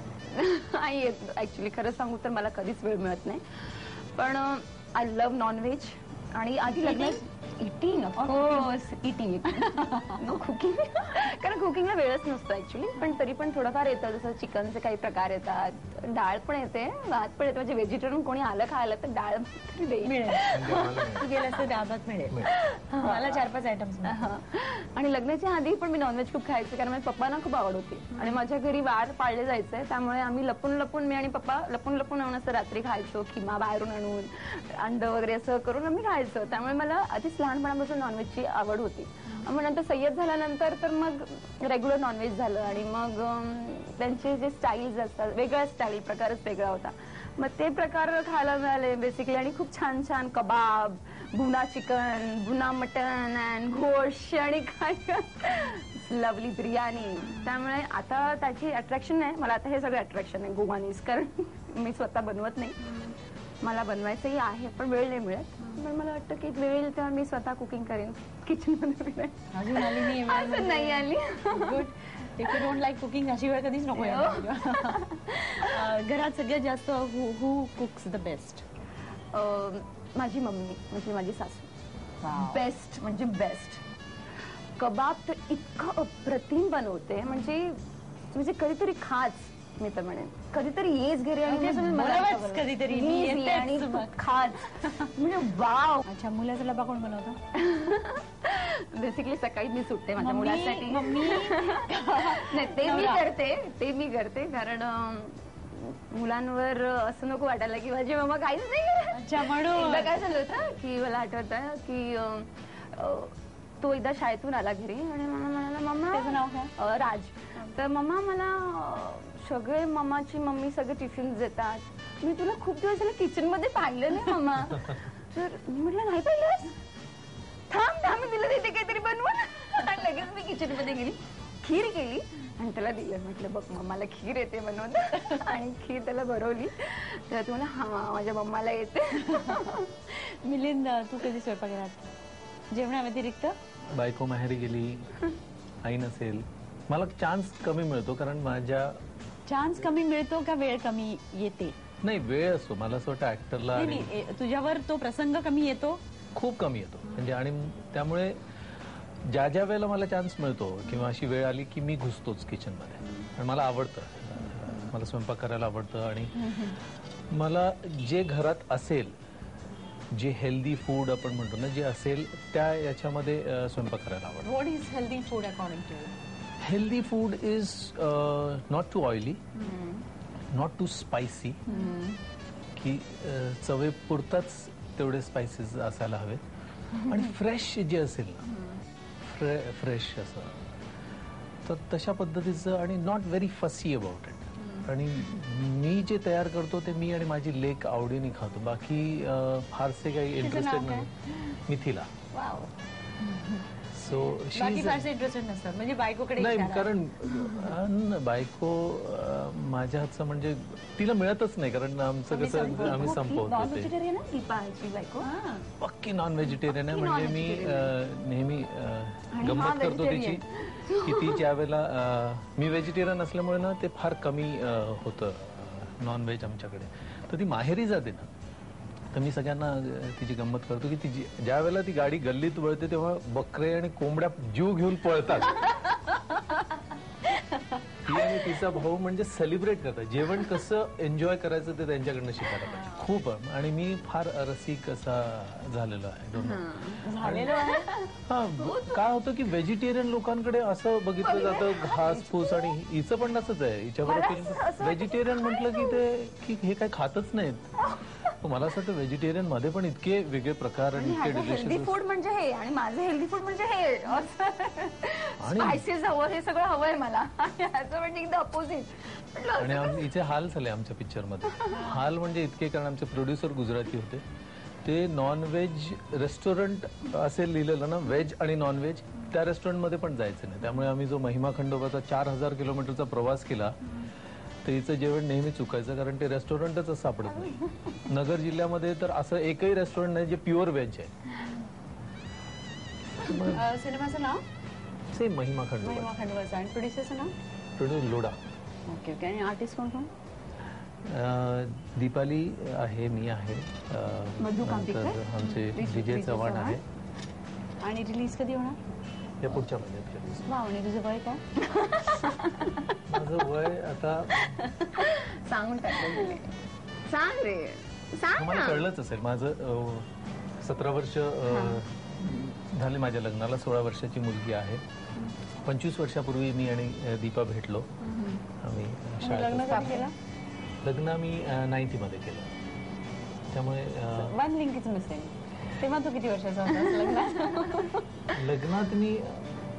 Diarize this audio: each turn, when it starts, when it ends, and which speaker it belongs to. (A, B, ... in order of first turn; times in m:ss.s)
0:00.3-0:21.2 A
0:06.7-0:07.2 B
0:08.2-0:08.7 B
0:09.6-0:10.2 B
0:20.0-0:22.4 B
0:20.5-0:21.6 C
0:22.6-0:23.4 A
0:23.0-0:24.3 B
0:24.0-1:11.9 A
1:09.5-1:18.6 B
1:12.4-1:12.7 A
1:13.9-1:15.2 A
1:19.3-1:21.7 A
1:22.2-1:22.6 B
1:22.3-1:23.8 A
1:24.8-1:27.8 A
1:28.3-1:36.0 A
1:31.4-1:34.1 B
1:36.0-1:37.4 B
1:37.6-2:06.8 A
1:40.2-1:43.3 B
1:49.1-1:50.1 B
1:56.1-1:56.7 B
2:07.7-2:19.9 A
2:19.4-2:22.1 B
2:22.7-2:23.6 B
2:23.9-2:25.2 C
2:25.8-2:29.0 C
2:29.4-2:31.8 B
2:32.0-2:34.1 C
2:33.7-2:36.0 B
2:36.3-2:38.4 C
2:39.2-2:46.7 C
2:46.4-2:46.7 A
2:47.3-2:49.1 C
2:50.1-2:54.5 C
2:54.4-2:56.1 B
2:56.6-2:59.4 C
2:59.6-3:00.0 A
3:00.5-3:01.6 C
3:01.7-3:02.2 A
3:02.7-3:06.4 C
3:07.0-3:08.5 C
3:09.2-3:10.7 C
3:11.6-3:22.1 C
3:20.4-3:21.1 B
3:22.3-3:22.7 A
3:23.2-3:23.6 A
3:23.9-3:25.1 C
3:24.5-3:26.9 B
3:26.4-3:33.9 C
3:27.3-3:27.7 A
3:32.3-3:33.2 B
3:32.5-3:35.3 A
3:35.2-3:35.6 B
3:35.8-3:40.4 C
3:36.6-3:37.9 A
3:39.3-3:41.4 A
3:41.0-3:48.3 C
3:49.1-3:55.7 C
3:55.8-3:56.5 B
3:58.0-4:07.6 C
4:06.4-4:08.1 A
4:07.0-4:07.9 B
4:08.2-4:17.7 C
4:08.6-4:09.0 A
4:11.2-4:12.7 A
4:14.0-4:16.0 A
4:18.4-4:21.9 C
4:21.0-4:30.1 A
4:25.4-4:25.8 C
4:29.6-4:34.2 C
4:31.6-4:31.9 A
4:34.8-4:43.8 C
4:44.6-4:51.1 C
4:47.5-4:47.9 A
4:53.2-4:53.7 C
4:53.5-4:54.4 B
4:55.1-4:56.1 C
4:55.8-4:57.3 B
4:57.8-4:58.4 C
4:58.9-5:00.1 B
5:01.0-5:06.8 C
5:04.4-5:06.8 A
5:07.8-5:08.8 B
5:09.4-5:10.6 C
5:10.4-5:11.4 B
5:11.6-5:13.0 A
5:13.1-5:14.5 C
5:15.0-5:16.5 A
5:17.1-5:18.8 A
5:18.4-5:24.8 C
5:21.5-5:21.8 A
5:25.6-5:27.9 C
5:28.1-5:28.4 A
5:28.6-5:30.0 C
5:29.2-5:30.1 B
5:30.8-5:32.5 C
5:33.5-5:34.4 C
5:34.1-5:38.0 B
5:37.2-5:37.6 A
5:38.3-5:39.6 C